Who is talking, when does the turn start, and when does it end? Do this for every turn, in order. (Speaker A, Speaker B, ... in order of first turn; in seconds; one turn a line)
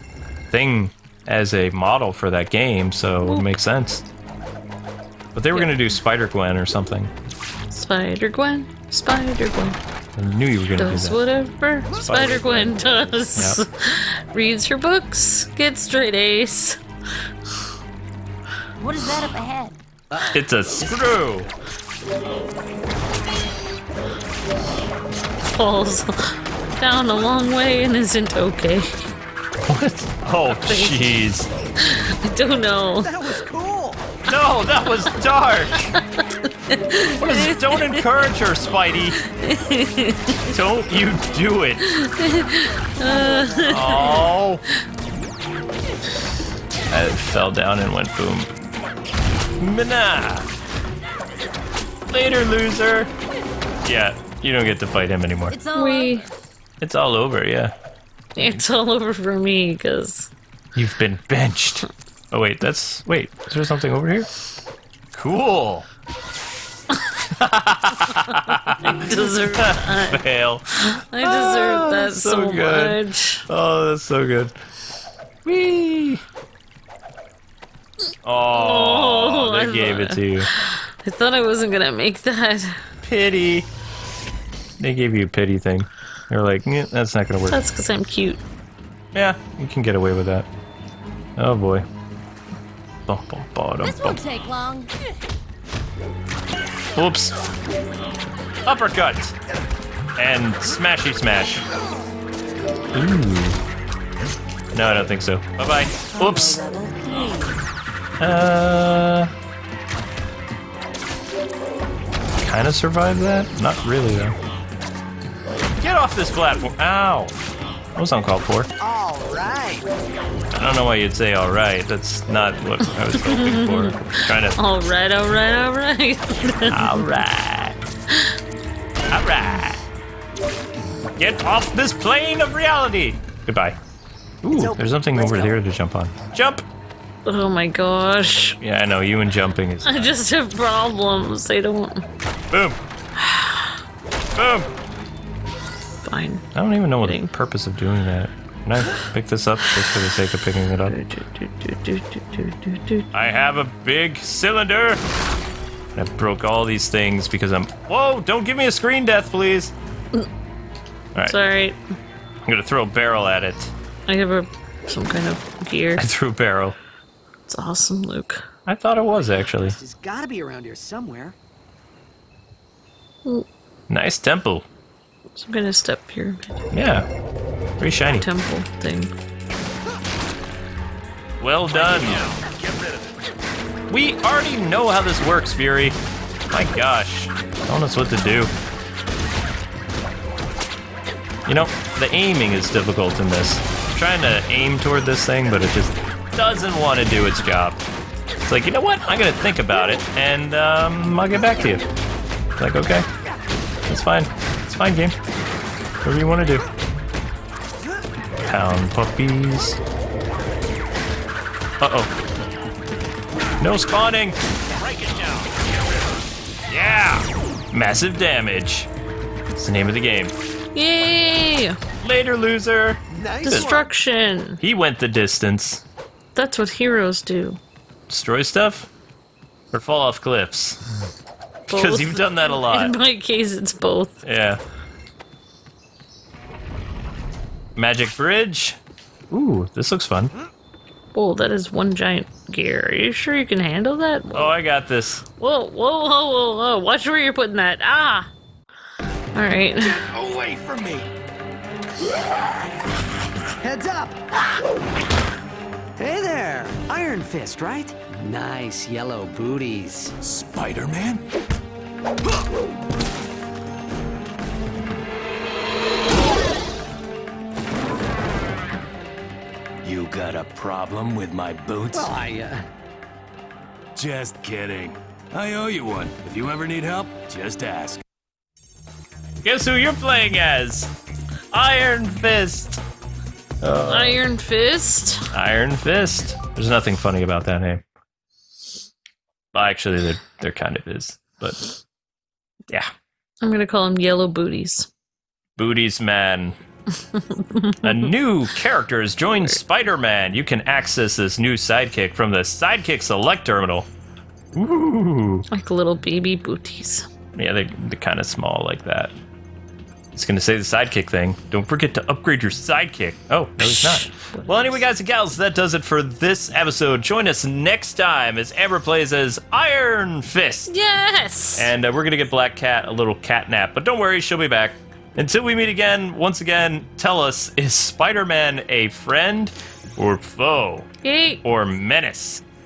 Speaker A: 0.5-4.1
Speaker A: 5.3-7.1
Speaker B: 5.5-5.9
Speaker B: 7.7-9.8
Speaker A: 10.2-11.2
Speaker B: 10.8-16.8
Speaker A: 11.9-13.6
Speaker C: 18.8-19.8
Speaker D: 20.1-21.1
Speaker A: 20.3-21.5
Speaker B: 25.4-29.0
Speaker A: 29.6-31.5
Speaker B: 30.5-31.2
Speaker B: 31.8-33.3
Speaker D: 33.0-34.1
Speaker A: 34.3-36.0
Speaker B: 35.9-38.0
Speaker A: 37.1-39.2
Speaker B: 39.2-40.4
Speaker A: 40.5-41.8
Speaker B: 41.8-44.8
Speaker D: 43.0-43.9
Speaker A: 43.7-44.6
Speaker A: 46.9-48.5
Speaker A: 49.6-50.5
Speaker A: 52.1-53.1
Speaker A: 53.8-55.5
Speaker C: 55.5-56.3
Speaker B: 55.7-56.2
Speaker A: 56.8-57.7
Speaker B: 58.3-60.3
Speaker A: 60.7-64.3
Speaker A: 65.1-65.8
Speaker A: 67.2-74.5
Speaker B: 68.8-70.2
Speaker B: 71.0-73.4
Speaker A: 75.4-76.2
Speaker A: 78.2-80.5
Speaker B: 78.5-82.8
Speaker A: 83.0-83.7
Speaker A: 84.8-87.6
Speaker B: 87.5-88.4
Speaker A: 89.1-90.5
Speaker A: 91.4-91.8
Speaker A: 93.1-94.2
Speaker C: 93.8-94.9
Speaker A: 96.9-97.3
Speaker A: 98.7-99.3
Speaker A: 100.2-101.6
Speaker A: 102.9-103.6
Speaker A: 104.7-106.6
Speaker C: 106.1-107.6
Speaker A: 108.2-109.3
Speaker A: 112.4-114.3
Speaker A: 115.8-117.3
Speaker A: 118.0-118.7
Speaker D: 118.8-119.8
Speaker A: 120.5-124.5
Speaker B: 123.1-124.0
Speaker B: 124.5-127.0
Speaker A: 126.7-127.8
Speaker A: 129.1-129.8
Speaker A: 131.2-133.8
Speaker A: 134.4-136.6
Speaker D: 134.5-135.6
Speaker B: 137.2-138.6
Speaker A: 138.6-140.1
Speaker B: 139.8-142.0
Speaker A: 142.5-142.8
Speaker B: 143.2-143.8
Speaker A: 144.3-144.7
Speaker B: 146.0-146.5
Speaker A: 146.5-150.9
Speaker B: 147.0-147.3
Speaker B: 150.8-153.1
Speaker A: 153.1-155.0
Speaker A: 155.9-159.7
Speaker B: 161.2-161.8
Speaker A: 162.4-163.7
Speaker B: 164.1-166.0
Speaker A: 165.9-166.8
Speaker B: 167.5-168.4
Speaker A: 168.7-169.8
Speaker D: 169.6-171.3
Speaker A: 173.9-174.6
Speaker B: 175.3-176.6
Speaker A: 176.7-177.1
Speaker A: 177.8-178.3
Speaker B: 178.1-179.1
Speaker A: 181.4-182.2
Speaker E: 181.9-183.1
Speaker A: 183.9-186.0
Speaker A: 186.5-188.5
Speaker A: 191.4-197.8
Speaker A: 198.4-201.8
Speaker A: 202.6-203.1
Speaker A: 203.9-205.1
Speaker A: 206.0-206.7
Speaker A: 208.4-209.8
Speaker A: 211.8-212.1
Speaker A: 213.6-214.4
Speaker E: 214.8-215.7
Speaker A: 216.7-218.9
Speaker A: 219.5-220.3
Speaker B: 220.7-221.8
Speaker A: 222.0-223.8
Speaker D: 223.1-223.9
Speaker B: 223.4-224.6
Speaker A: 224.6-225.8
Speaker B: 226.3-227.6
Speaker A: 228.1-228.9
Speaker A: 229.7-230.8
Speaker A: 231.7-232.9
Speaker B: 231.7-234.2
Speaker A: 234.2-234.6
Speaker A: 237.8-238.8
Speaker A: 239.3-240.3
Speaker B: 241.1-244.5
Speaker A: 244.3-245.2
Speaker B: 245.4-248.3
Speaker B: 249.3-250.0
Speaker E: 249.9-251.1
Speaker D: 253.6-254.6
Speaker D: 256.0-260.1
Speaker E: 260.2-261.2
Speaker E: 269.8-272.2
Speaker D: 271.9-272.6
Speaker E: 273.9-278.0
Speaker A: 279.4-280.9
Speaker A: 281.5-282.8
Speaker A: 283.6-284.2
Speaker B: 283.9-285.3
Speaker A: 285.3-287.8
Speaker A: 289.5-291.8
Speaker B: 293.4-294.9
Speaker A: 295.6-296.6
Speaker B: 297.1-298.1
Speaker A: 297.8-303.9
Speaker B: 299.3-299.6
Speaker A: 304.5-305.4
Speaker B: 305.5-307.1
Speaker A: 307.3-309.1
Speaker A: 310.1-320.7
Speaker B: 313.6-314.8
Speaker B: 320.7-321.7
Speaker A: 321.5-330.9
Speaker B: 331.0-331.4
Speaker A: 331.4-332.4